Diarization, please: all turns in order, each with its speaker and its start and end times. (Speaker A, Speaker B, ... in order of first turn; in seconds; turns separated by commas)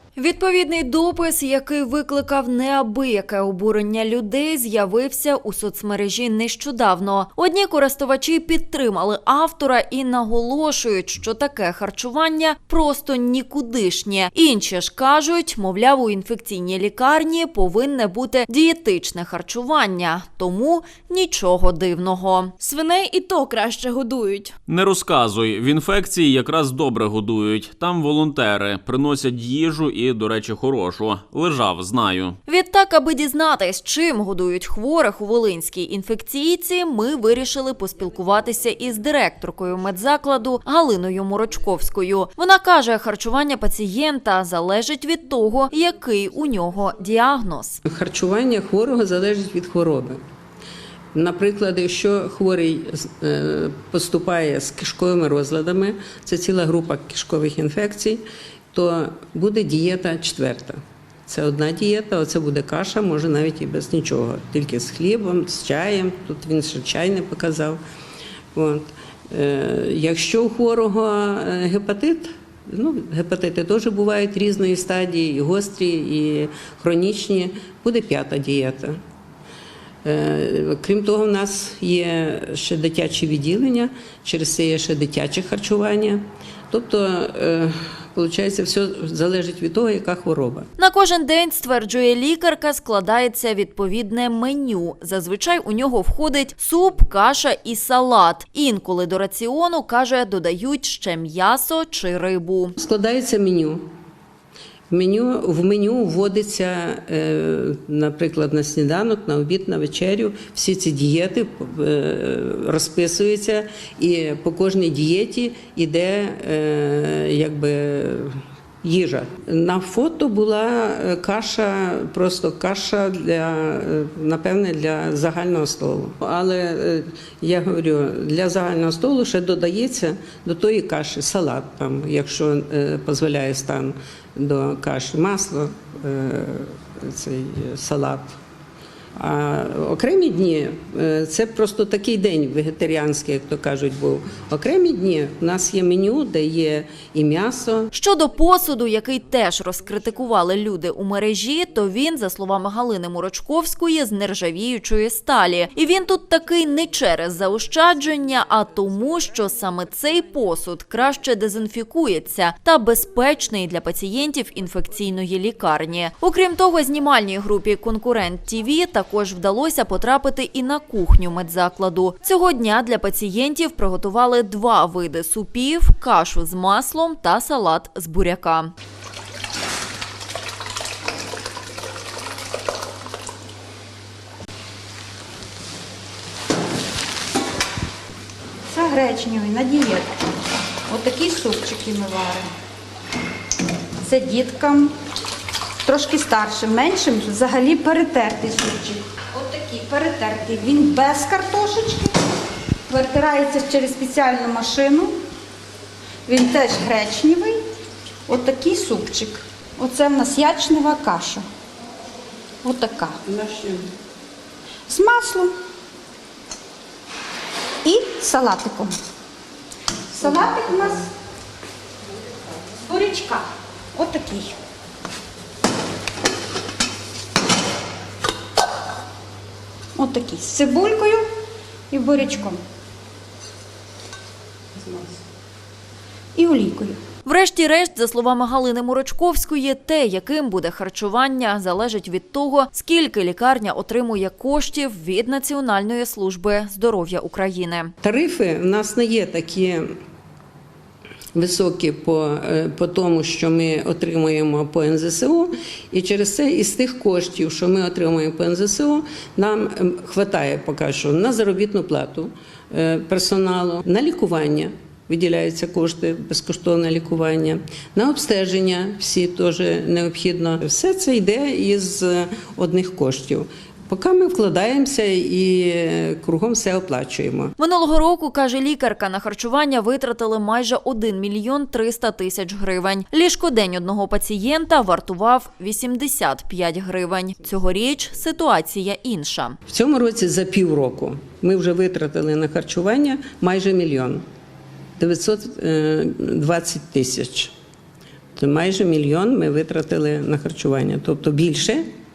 Speaker A: 0.1-22.6, Speaker B: 22.6-24.5, Speaker C: 24.6-32.4, Speaker A: 32.5-47.8, Speaker D: 47.9-50.2, Speaker D: 51.1-67.8, Speaker D: 68.5-79.0, Speaker D: 80.0-90.7, Speaker A: 90.8-102.7, Speaker D: 102.8-103.9, Speaker D: 104.9-138.3, Speaker D: 139.2-147.9, Speaker A: 147.9-178.7, Speaker E: 188.7-190.1, Speaker E: 190.9-192.5, Speaker E: 194.0-194.9, Speaker E: 195.8-202.1, Speaker E: 202.9-205.1, Speaker E: 206.3-207.6, Speaker E: 208.3-211.4, Speaker E: 212.6-213.2, Speaker E: 214.9-215.5, Speaker E: 217.8-218.9, Speaker E: 220.1-221.1, Speaker E: 222.9-224.5, Speaker E: 229.9-231.3, Speaker E: 231.9-232.6, Speaker E: 236.3-237.0, Speaker A: 237.2-247.9, Speaker D: 248.0-249.9, Speaker D: 251.3-277.5, Speaker A: 277.6-289.6, Speaker D: 289.7-294.2, Speaker D: 295.0-297.5, Speaker D: 298.4-301.9